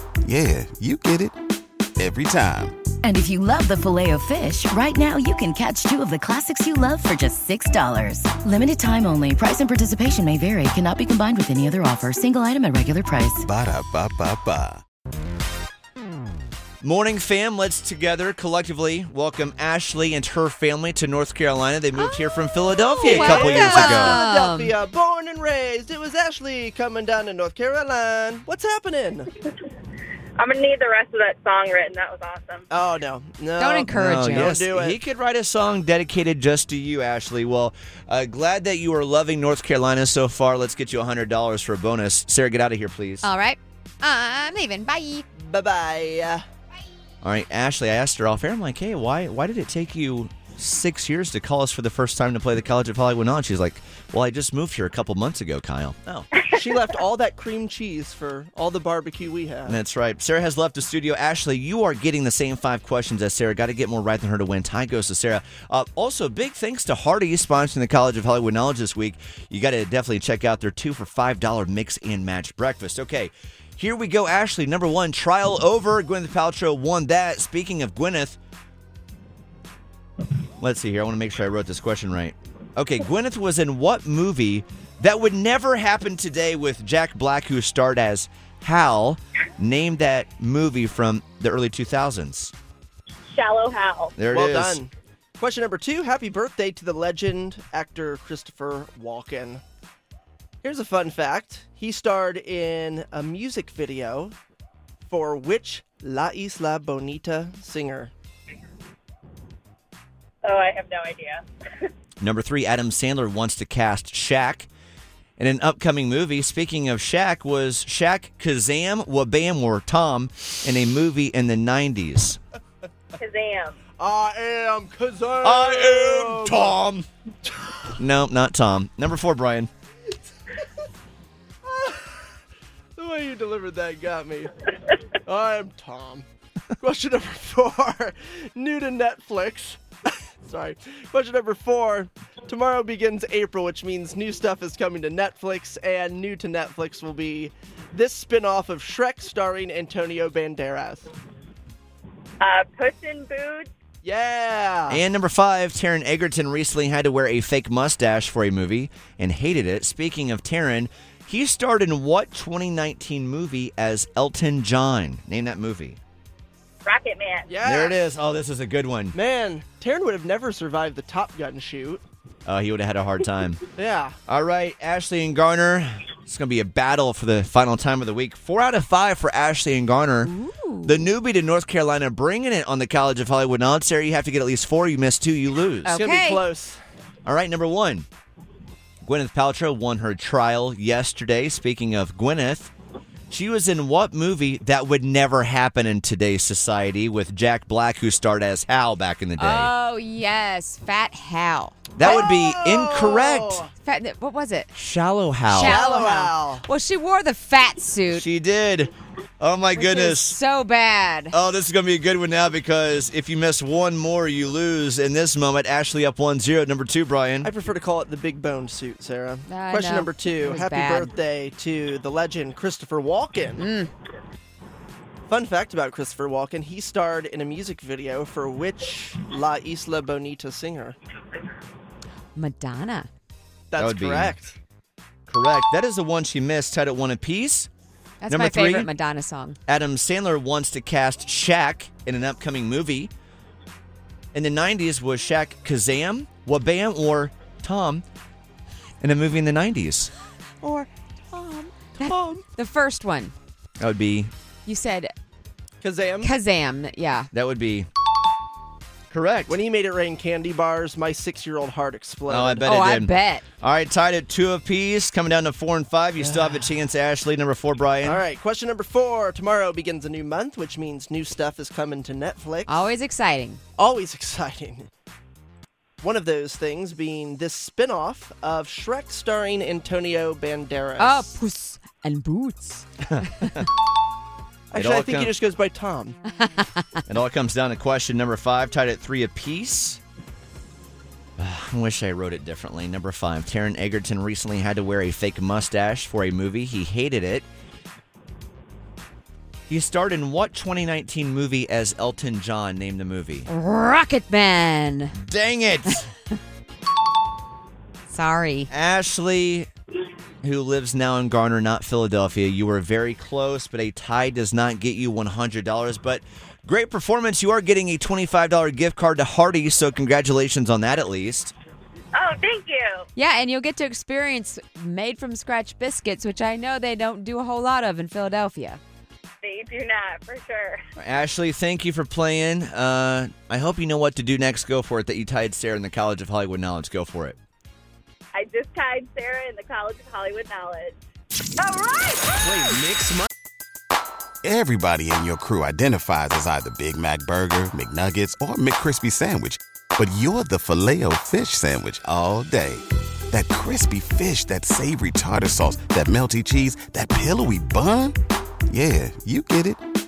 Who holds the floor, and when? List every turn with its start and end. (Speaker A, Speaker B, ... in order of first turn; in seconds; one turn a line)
Speaker A: 0.2-1.4
Speaker A: 2.0-2.8
Speaker B: 3.0-13.5
Speaker A: 13.4-14.8
Speaker C: 16.8-24.2
Speaker D: 22.0-24.8
Speaker E: 23.0-29.3
Speaker F: 30.4-32.6
Speaker E: 32.7-35.0
Speaker D: 33.6-34.6
Speaker C: 33.9-43.3
Speaker D: 43.2-45.2
Speaker E: 45.4-46.4
Speaker C: 47.2-56.3
Speaker E: 56.5-59.8
Speaker C: 59.6-78.4
Speaker C: 80.6-92.5
Speaker F: 93.3-94.2
Speaker C: 94.2-94.8
Speaker E: 94.3-99.6
Speaker E: 100.6-104.3
Speaker E: 105.1-108.1
Speaker F: 110.4-111.4
Speaker C: 112.2-114.7
Speaker C: 115.4-122.4
Speaker F: 123.2-123.8
Speaker E: 123.9-126.8
Speaker C: 125.4-127.1
Speaker C: 128.0-129.7
Speaker E: 131.7-132.0
Speaker E: 133.0-134.5
Speaker E: 135.3-136.3
Speaker E: 136.8-139.8
Speaker E: 140.4-151.1
Speaker F: 152.4-153.7
Speaker E: 154.0-155.0
Speaker C: 154.9-166.0
Speaker F: 166.8-167.6
Speaker E: 167.5-168.0
Speaker C: 167.6-169.2
Speaker E: 169.1-172.0
Speaker C: 172.5-173.7
Speaker E: 173.8-174.2
Speaker C: 174.3-180.3
Speaker D: 180.2-181.1
Speaker C: 180.8-186.0
Speaker D: 185.8-186.5
Speaker E: 185.9-186.8
Speaker C: 187.2-188.1
Speaker C: 189.0-192.7
Speaker C: 193.3-199.7
Speaker D: 199.4-201.8
Speaker C: 202.0-203.6
Speaker E: 202.0-203.7
Speaker D: 203.8-204.7
Speaker C: 204.7-205.9
Speaker D: 205.4-208.2
Speaker E: 205.6-206.6
Speaker C: 208.1-210.4
Speaker D: 209.7-211.3
Speaker C: 211.3-217.5
Speaker E: 217.4-223.7
Speaker D: 219.5-221.1
Speaker D: 223.6-223.9
Speaker E: 225.3-231.0
Speaker D: 232.3-233.1
Speaker E: 233.7-234.6
Speaker C: 233.8-234.4
Speaker C: 235.3-237.7
Speaker D: 238.2-239.6
Speaker C: 238.3-238.9
Speaker C: 239.7-243.1
Speaker C: 244.3-248.1
Speaker C: 249.0-250.1
Speaker D: 250.6-253.3
Speaker C: 253.8-254.3
Speaker D: 254.7-255.1
Speaker E: 255.8-256.3
Speaker D: 256.2-257.3
Speaker C: 257.3-257.9
Speaker C: 259.1-259.6
Speaker E: 259.5-262.7
Speaker C: 262.3-268.2
Speaker D: 262.6-263.4
Speaker E: 268.0-272.9
Speaker D: 272.7-273.6
Speaker E: 273.8-274.9
Speaker E: 276.0-281.3
Speaker D: 281.0-283.5
Speaker C: 283.1-283.6
Speaker E: 284.7-286.2
Speaker C: 284.7-285.3
Speaker D: 286.4-286.8
Speaker C: 287.1-290.0
Speaker C: 291.4-297.5
Speaker C: 299.7-303.5
Speaker D: 303.5-305.1
Speaker C: 305.2-306.1
Speaker D: 308.1-308.7
Speaker C: 308.7-309.7
Speaker C: 310.4-321.5
Speaker F: 322.2-323.1
Speaker D: 323.2-328.8
Speaker F: 329.4-330.8
Speaker C: 331.0-337.4
Speaker F: 338.3-341.0
Speaker F: 341.6-342.8
Speaker A: 344.4-358.2
Speaker A: 358.7-359.8